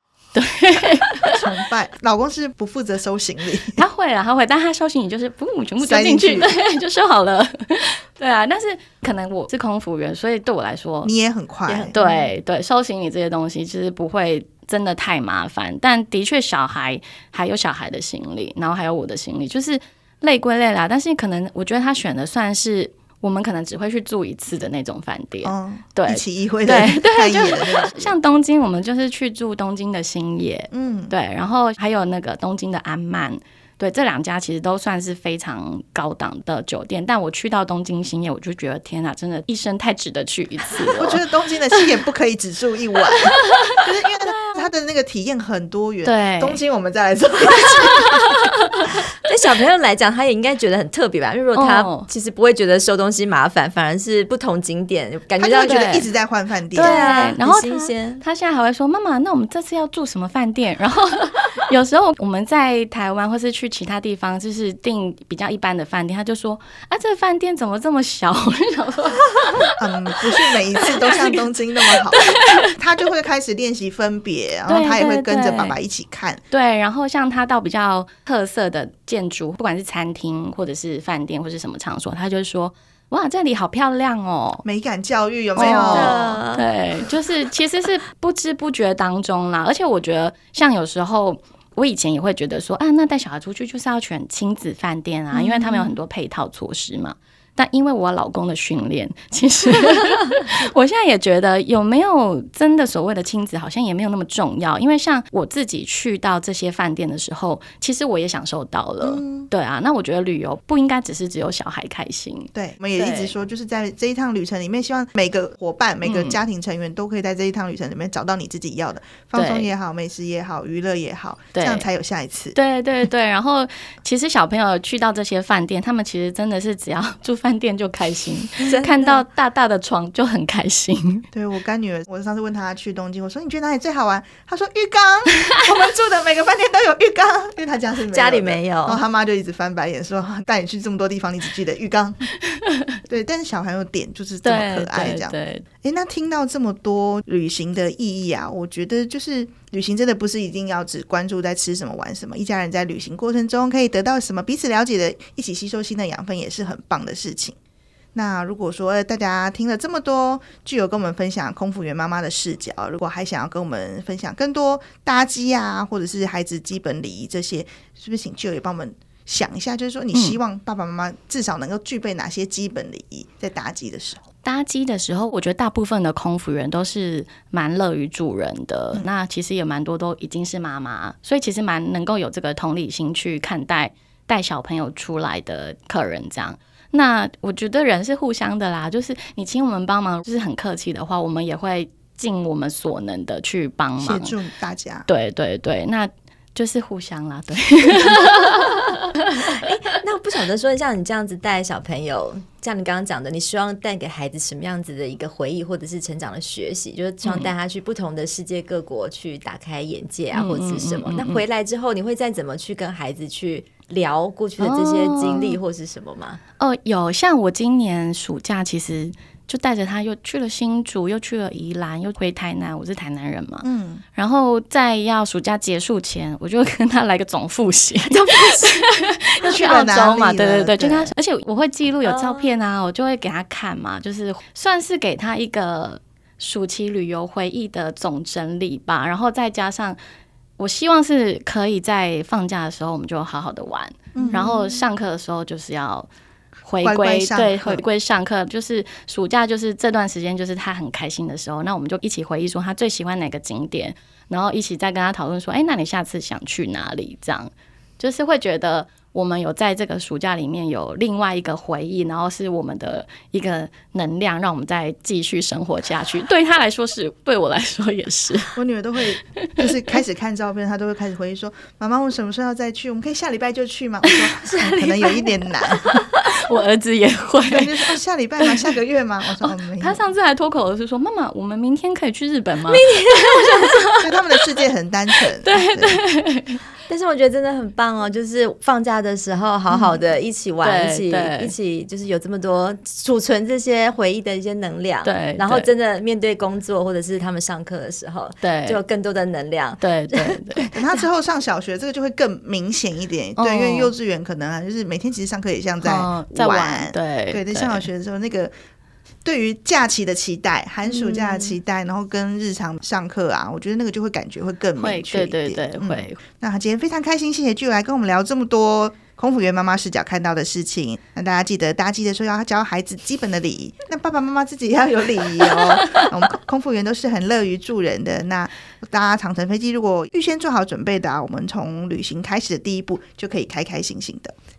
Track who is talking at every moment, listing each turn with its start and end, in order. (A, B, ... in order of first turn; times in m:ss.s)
0:00.4-0:01.4 A
0:01.2-0:03.8 B
0:03.8-0:11.1 A
0:05.8-0:06.5 B
0:11.0-0:12.0 B
0:11.7-0:12.3 C
0:11.9-0:41.2 A
0:25.4-0:28.1 B
0:30.7-0:31.1 B
0:41.0-0:48.4 B
0:43.2-0:43.8 A
0:46.0-0:46.6 A
0:49.2-0:56.0 C
0:51.6-0:52.1 A
0:55.4-0:57.4 B
0:55.6-0:56.1 A
0:56.7-1:09.7 A
0:56.8-0:58.2 C
1:09.7-1:16.4 B
1:10.8-1:11.4 A
1:11.9-1:12.7 A
1:14.7-1:15.8 A
1:16.5-1:24.6 A
1:24.6-1:26.4 B
1:25.6-1:53.4 A
1:25.6-1:26.6 C
1:35.4-1:35.9 B
1:49.0-1:49.5 B
1:52.6-2:02.6 B
1:56.0-1:56.4 A
1:59.3-1:59.7 A
2:01.6-2:01.9 A
2:02.5-2:11.2 A
2:08.6-2:09.2 C
2:11.3-2:22.3 B
2:18.1-2:19.0 C
2:22.4-2:22.9 A
2:23.1-2:37.6 B
2:24.4-2:25.6 A
2:38.1-2:54.2 B
2:50.1-2:50.4 A
2:54.4-3:14.4 A
3:14.0-3:15.1 B
3:15.1-3:19.5 A
3:19.4-3:36.4 C
3:27.2-3:27.5 A
3:30.3-3:31.4 A
3:34.6-3:35.6 A
3:36.6-4:00.0 A
3:43.6-3:44.0 B
3:48.1-3:48.7 C
3:49.4-3:51.1 B
3:52.0-3:52.5 C
4:00.6-4:06.1 A
4:04.1-4:04.6 B
4:06.6-4:28.6 A
4:06.8-4:07.8 B
4:28.6-4:36.0 B
4:29.4-4:29.7 A
4:34.4-4:35.0 C
4:34.9-4:35.2 A
4:35.9-4:36.2 C
4:36.2-4:38.6 A
4:37.5-4:40.0 B
4:39.4-4:44.1 A
4:42.7-4:43.7 C
4:44.0-4:46.0 B
4:45.4-4:46.6 A
4:46.9-5:01.0 C
4:50.6-4:51.5 A
4:55.0-4:55.7 A
4:58.4-4:58.8 A
4:59.8-5:00.7 A
5:00.7-5:08.5 B
5:03.4-5:03.9 A
5:05.8-5:07.9 A
5:09.2-5:34.4 B
5:10.9-5:11.5 C
5:14.8-5:16.2 A
5:25.7-5:26.1 A